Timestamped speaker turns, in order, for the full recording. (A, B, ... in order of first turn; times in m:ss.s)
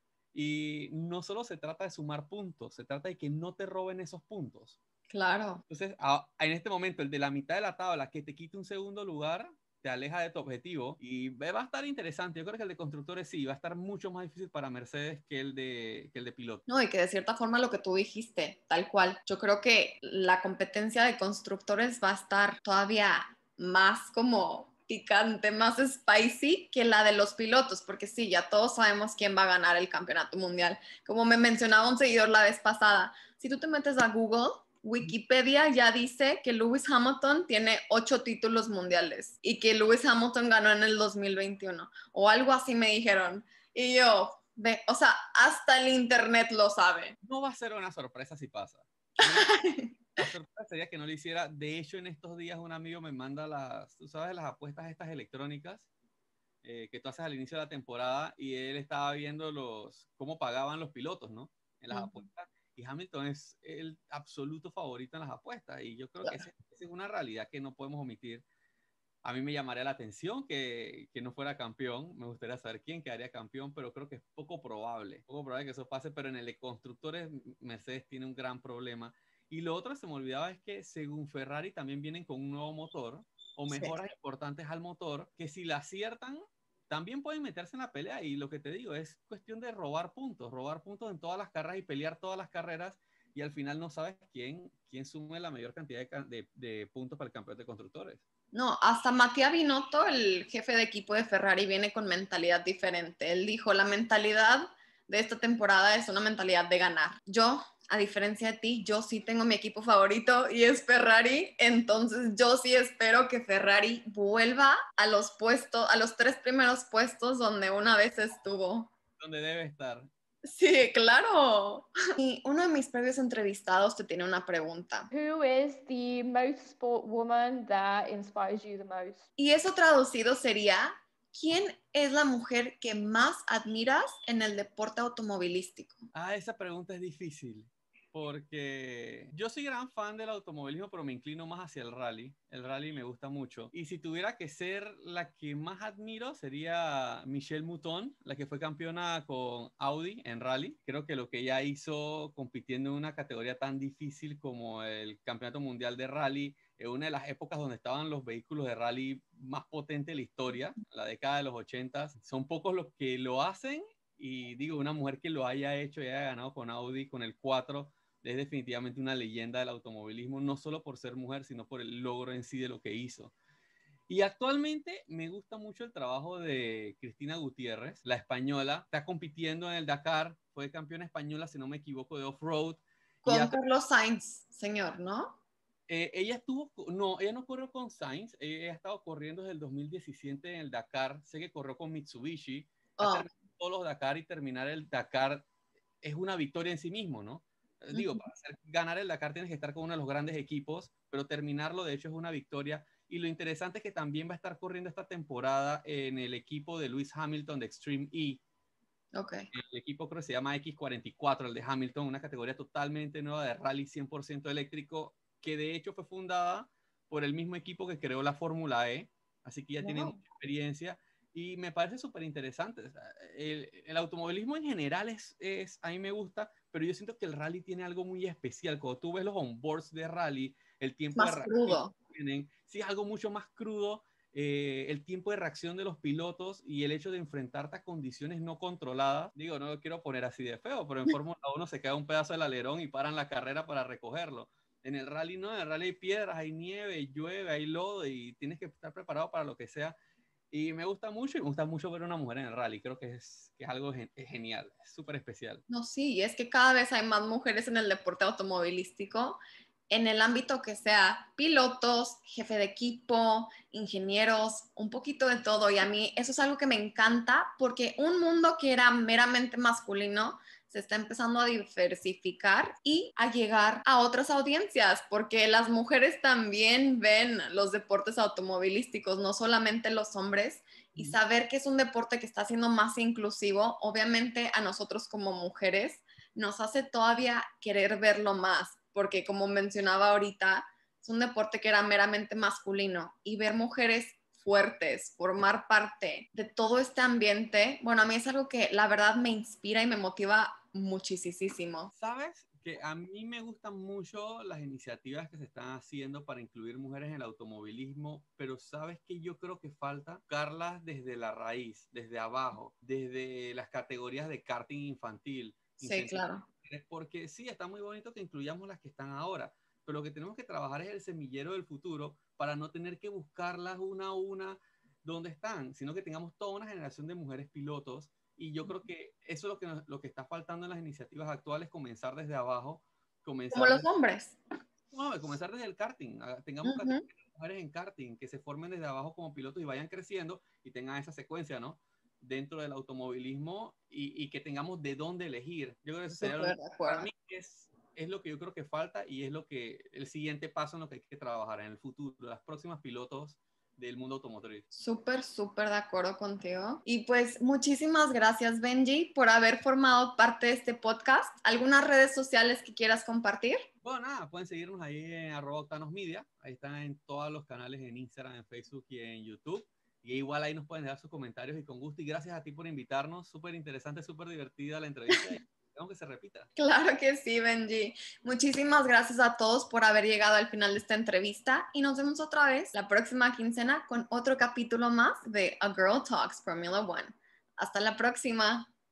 0:00.3-0:04.8 A
0:05.1-0:05.6 B
0:05.7-0:16.6 A
0:16.7-0:47.2 B
0:47.2-0:49.6 A
0:49.2-0:49.9 B
0:50.2-0:55.9 A
0:56.6-1:08.4 A
1:01.9-1:02.2 B
1:09.2-1:38.2 A
1:23.7-1:24.0 B
1:38.5-1:58.9 B
1:59.2-2:00.1 A
2:00.4-2:05.1 B
2:05.1-2:09.2 C
2:09.4-2:16.0 B
2:16.1-2:53.3 A
2:54.1-3:03.6 A
3:03.2-3:05.4 B
3:05.9-3:15.5 A
3:13.0-3:13.3 B
3:16.0-3:28.4 A
3:17.9-3:18.2 B
3:29.1-3:29.5 B
3:29.5-4:10.0 A
3:39.8-3:40.2 B
3:51.1-3:51.9 B
4:10.5-4:15.6 A
4:15.7-5:01.9 B
5:01.9-5:33.9 A
5:15.8-5:16.4 B
5:33.5-5:34.4 B
5:34.9-5:54.6 A
5:36.6-5:37.0 B
5:46.1-5:47.1 B
5:54.7-6:03.6 B
6:03.8-6:16.5 A
6:16.6-6:28.7 B